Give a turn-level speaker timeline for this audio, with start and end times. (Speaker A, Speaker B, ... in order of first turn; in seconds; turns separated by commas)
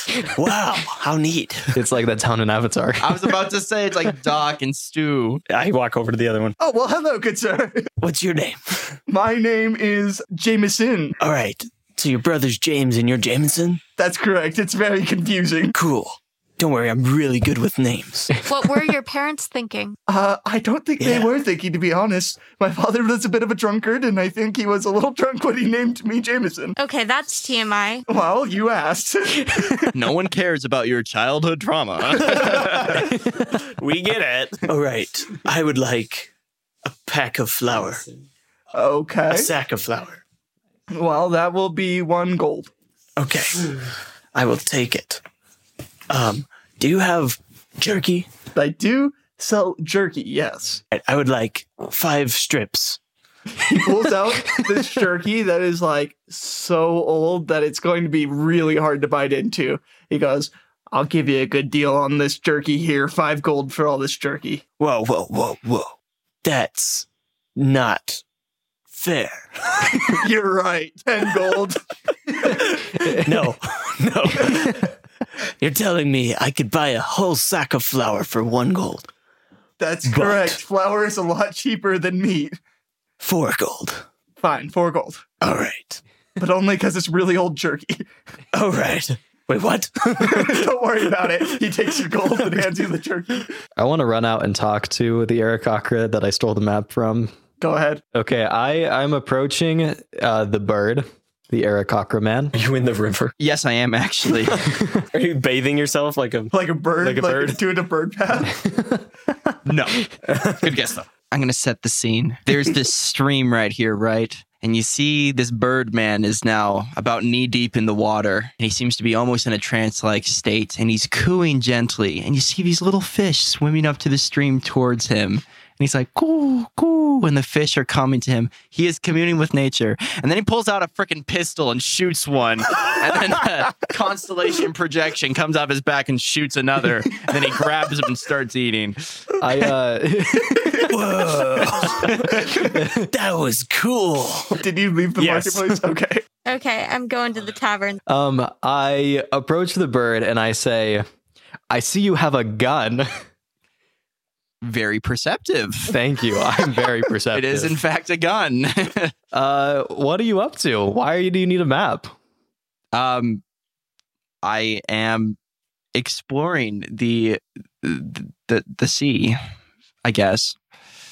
Speaker A: 0.1-1.7, Speaker B: 1.7-3.3, Speaker C: 3.0-5.4, Speaker D: 5.5-6.5, Speaker E: 6.6-7.9, Speaker A: 8.0-9.0, Speaker E: 9.1-11.2, Speaker A: 11.2-13.8, Speaker E: 14.0-15.8, Speaker A: 15.8-18.5, Speaker F: 18.5-20.0, Speaker E: 20.1-26.8, Speaker A: 21.0-21.3, Speaker F: 26.8-28.1, Speaker E: 28.1-29.9, Speaker C: 29.9-33.1, Speaker D: 33.6-34.7, Speaker A: 34.7-36.3, Speaker A: 36.8-38.0, Speaker E: 38.7-39.5, Speaker A: 39.3-40.2, Speaker E: 40.9-42.7, Speaker A: 43.2-45.2, Speaker A: 46.1-48.3, Speaker E: 48.5-50.8, Speaker A: 50.9-53.0, Speaker E: 53.6-64.6, Speaker A: 64.8-68.2, Speaker A: 68.9-70.2, Speaker E: 70.1-72.6, Speaker A: 72.5-74.8, Speaker B: 73.0-73.5, Speaker E: 74.4-74.7, Speaker A: 75.6-79.1, Speaker E: 79.8-82.6, Speaker A: 80.0-80.6, Speaker A: 83.2-84.0, Speaker E: 84.4-85.2, Speaker A: 85.4-86.0, Speaker E: 86.4-88.0, Speaker A: 88.5-90.7, Speaker E: 90.2-93.5, Speaker B: 93.8-97.3, Speaker E: 97.6-98.0, Speaker B: 98.1-102.5, Speaker D: 102.5-103.3, Speaker C: 103.4-104.7, Speaker D: 105.1-107.6, Speaker E: 106.5-108.6, Speaker B: 108.5-109.0, Speaker C: 109.7-110.1, Speaker D: 110.3-110.6, Speaker C: 110.6-139.0, Speaker B: 139.4-141.2, Speaker A: 140.9-142.2, Speaker C: 142.0-142.3, Speaker E: 142.1-142.7, Speaker B: 142.6-143.1, Speaker A: 143.1-144.6, Speaker E: 144.6-146.2, Speaker D: 145.2-145.7, Speaker F: 146.5-148.0, Speaker B: 148.1-151.0, Speaker B: 151.7-153.1, Speaker C: 154.6-155.9, Speaker B: 155.9-157.8, Speaker C: 157.3-159.1, Speaker B: 159.3-162.1, Speaker C: 162.9-163.4, Speaker C: 164.4-165.4, Speaker C: 165.9-169.4, Speaker C: 170.0-170.6